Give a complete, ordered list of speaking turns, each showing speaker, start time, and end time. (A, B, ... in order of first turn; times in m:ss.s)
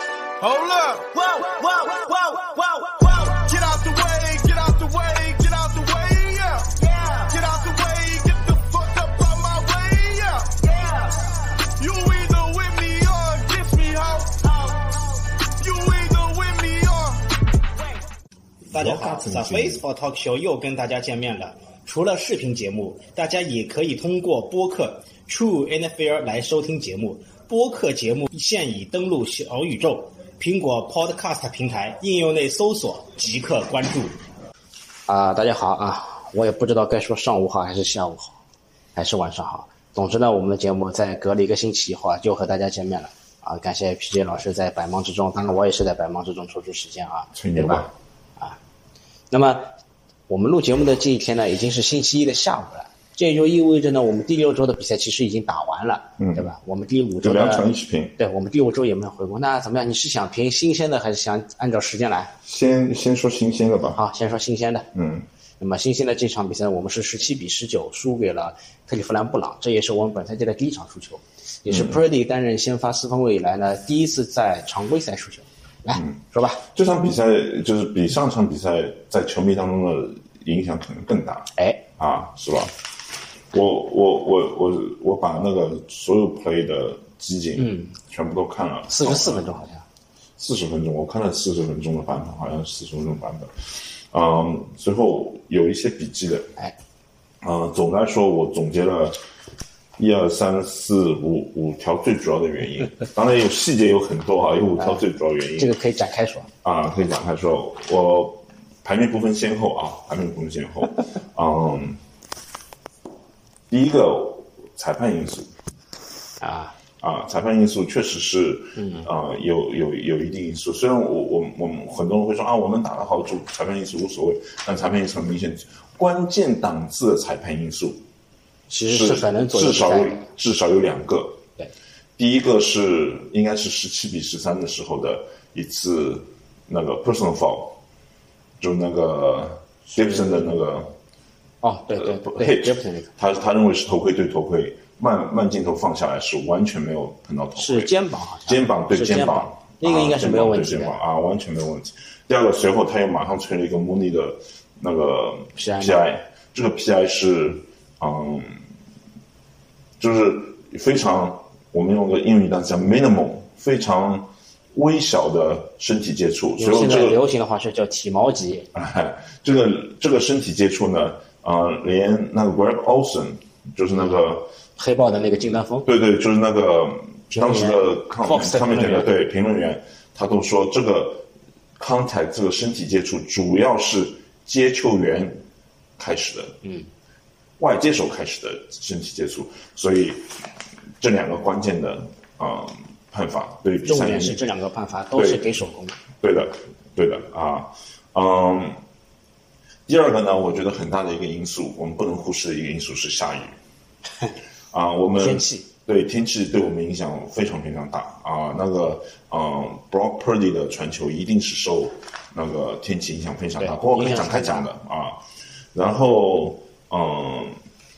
0:00.4-0:17.2 A
0:18.7-0:34.1 B
0:19.0-0:19.8 C
0:35.1-0:38.4 D
0:38.9-0:48.6 D
0:47.3-0:47.9 C
0:49.3-0:49.7 D
0:50.3-0:57.6 D
0:56.2-0:56.4 C
0:57.2-0:58.1 C
0:58.2-1:02.3 D
1:02.4-1:04.0 C
1:03.9-1:04.9 D
1:04.9-1:05.2 C
1:05.6-1:16.6 D
1:11.7-1:12.0 C
1:15.9-1:22.7 C
1:21.6-1:21.8 D
1:23.5-1:29.5 C
1:27.6-1:27.9 D
1:28.9-1:29.8 D
1:30.4-1:33.5 C
1:34.1-1:36.5 C
1:37.4-1:39.2 C
1:40.0-1:45.7 C
1:44.8-1:45.0 D
1:45.6-1:46.5 D
1:46.6-1:52.0 C
1:53.7-1:55.5 C
1:56.4-1:56.7 D
1:57.0-2:08.0 C
1:58.8-1:59.1 D
2:08.7-2:10.3 D
2:08.9-2:11.4 C
2:12.2-2:17.8 C
2:18.6-2:20.9 C
2:19.9-2:20.5 D
2:21.6-2:23.1 D
2:21.9-2:27.9 C
2:27.6-2:31.0 D
2:28.4-2:38.6 C
2:35.5-2:36.2 D
2:40.0-2:47.2 C
2:46.6-2:48.7 D
2:48.7-2:54.5 C
2:53.9-2:55.9 D
2:55.8-3:01.2 C
2:57.4-2:59.1 D
3:01.8-3:05.4 C
3:06.0-3:06.6 C
3:07.6-3:10.3 C
3:11.0-3:14.4 C
3:13.8-3:16.0 D
3:15.2-3:15.5 C
3:16.2-3:18.8 C
3:19.9-3:23.6 C
3:24.7-3:35.2 C
3:25.2-3:25.7 D
3:33.6-3:34.7 D
3:35.7-3:37.6 C